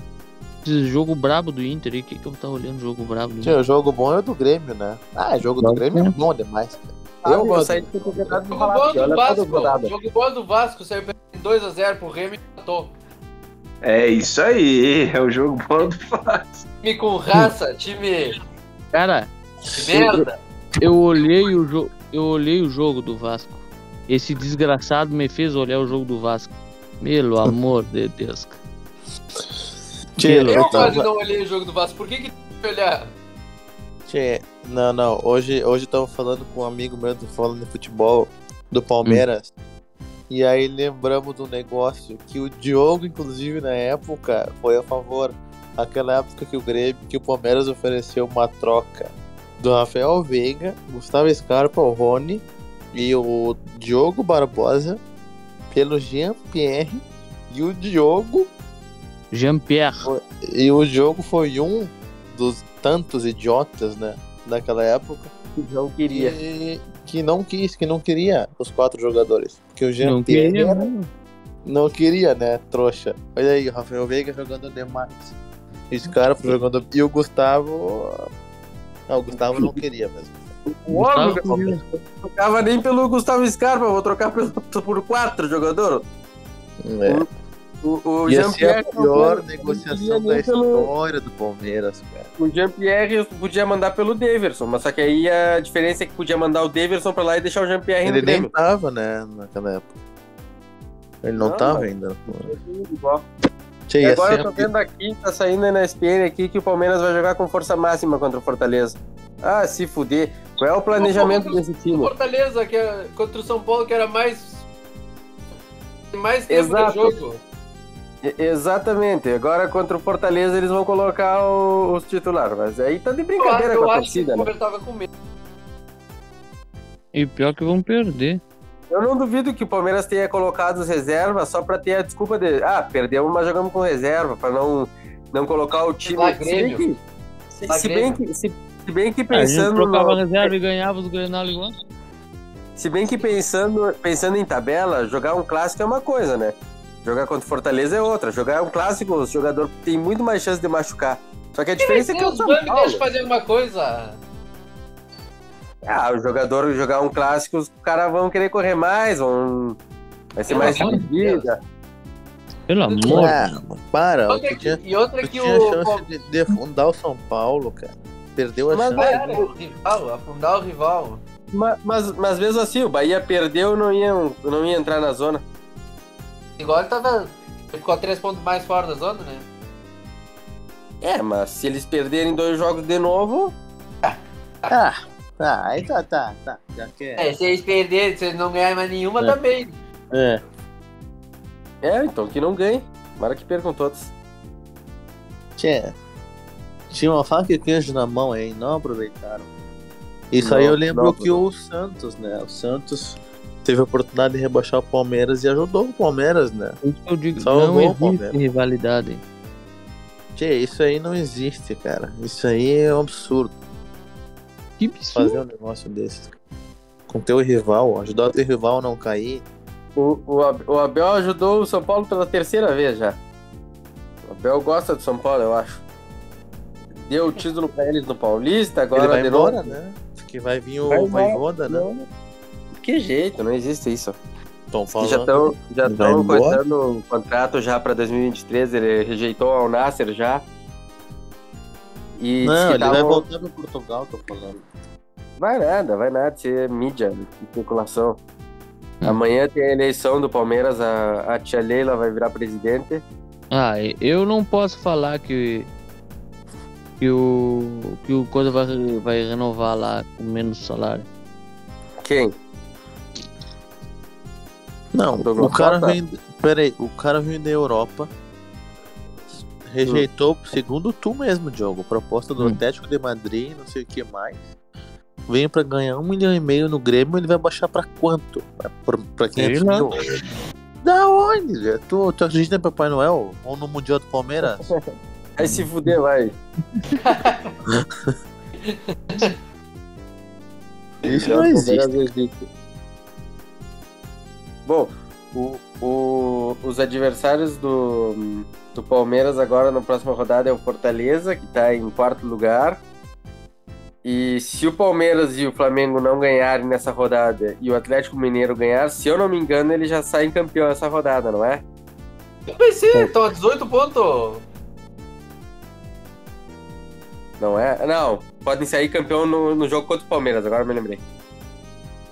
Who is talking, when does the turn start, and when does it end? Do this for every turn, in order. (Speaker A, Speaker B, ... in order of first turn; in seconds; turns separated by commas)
Speaker A: 0.7-3.6, Speaker B: 3.4-8.4, Speaker A: 5.6-6.2, Speaker C: 7.2-9.9, Speaker D: 8.5-12.9, Speaker E: 13.8-16.7, Speaker D: 16.8-18.4, Speaker A: 18.9-19.3, Speaker D: 19.8-20.4, Speaker B: 19.8-20.3, Speaker A: 20.8-28.6, Speaker B: 30.2-31.1, Speaker A: 30.2-30.9, Speaker D: 30.5-33.1, Speaker B: 34.1-39.5, Speaker B: 40.3-55.0, Speaker B: 55.7-58.5, Speaker A: 59.3-60.1, Speaker B: 60.0-65.3, Speaker C: 65.6-66.4, Speaker B: 66.1-70.9, Speaker A: 70.0-71.1, Speaker B: 71.7-75.3, Speaker B: 75.9-78.3, Speaker B: 79.1-80.4, Speaker A: 79.6-79.8, Speaker C: 80.7-86.0, Speaker A: 80.9-81.8, Speaker B: 86.8-87.3, Speaker C: 87.8-90.9, Speaker B: 88.3-92.3, Speaker C: 92.4-98.5, Speaker B: 98.0-99.9, Speaker B: 101.2-102.5, Speaker C: 101.4-101.9, Speaker C: 102.4-103.2, Speaker B: 103.9-104.7, Speaker C: 104.0-112.1, Speaker D: 111.0-114.7, Speaker D: 116.1-117.4, Speaker C: 116.5-117.2, Speaker C: 118.2-124.5, Speaker D: 123.4-125.1, Speaker A: 127.1-128.4, Speaker C: 128.9-137.0, Speaker D: 136.1-136.9, Speaker C: 137.6-140.5, Speaker D: 137.7-138.2, Speaker A: 139.3-141.7, Speaker C: 142.8-146.5, Speaker C: 147.0-153.1, Speaker D: 151.8-154.2, Speaker C: 155.9-159.8, Speaker C: 160.4-161.6, Speaker D: 160.5-161.5, Speaker A: 162.7-163.4, Speaker D: 162.9-163.3, Speaker B: 163.1-169.2, Speaker D: 164.3-166.0, Speaker C: 168.7-169.5, Speaker D: 169.0-171.2, Speaker C: 171.5-175.4, Speaker D: 176.6-179.4, Speaker C: 181.0-183.6, Speaker D: 184.0-184.7, Speaker B: 184.7-187.3, Speaker D: 187.2-189.7, Speaker B: 190.1-190.4, Speaker C: 191.8-194.1, Speaker B: 195.6-195.9, Speaker B: 196.9-199.5, Speaker B: 200.3-206.8, Speaker C: 200.4-201.4, Speaker A: 206.8-209.2, Speaker B: 207.4-208.4, Speaker B: 210.3-213.6, Speaker A: 214.8-215.4, Speaker B: 215.2-216.3, Speaker B: 217.1-219.4, Speaker C: 220.0-223.2, Speaker C: 224.3-225.8, Speaker C: 227.1-229.8, Speaker B: 228.9-231.9, Speaker C: 230.9-232.1, Speaker C: 232.8-234.2, Speaker B: 234.7-236.6, Speaker C: 234.9-240.4, Speaker C: 242.2-243.2, Speaker B: 242.4-244.7, Speaker C: 245.4-248.2, Speaker C: 249.0-253.0, Speaker A: 253.5-255.7, Speaker A: 257.0-261.1, Speaker C: 262.0-262.3, Speaker B: 264.9-268.1, Speaker C: 265.2-266.0, Speaker B: 269.4-274.5, Speaker B: 275.3-280.0, Speaker A: 279.4-280.1, Speaker B: 280.8-284.7, Speaker C: 284.7-286.4, Speaker D: 287.0-287.5, Speaker D: 288.6-289.4, Speaker B: 291.0-292.1, Speaker C: 291.1-292.5, Speaker C: 294.7-302.8, Speaker C: 304.0-311.6, Speaker D: 312.5-314.4, Speaker C: 317.4-321.0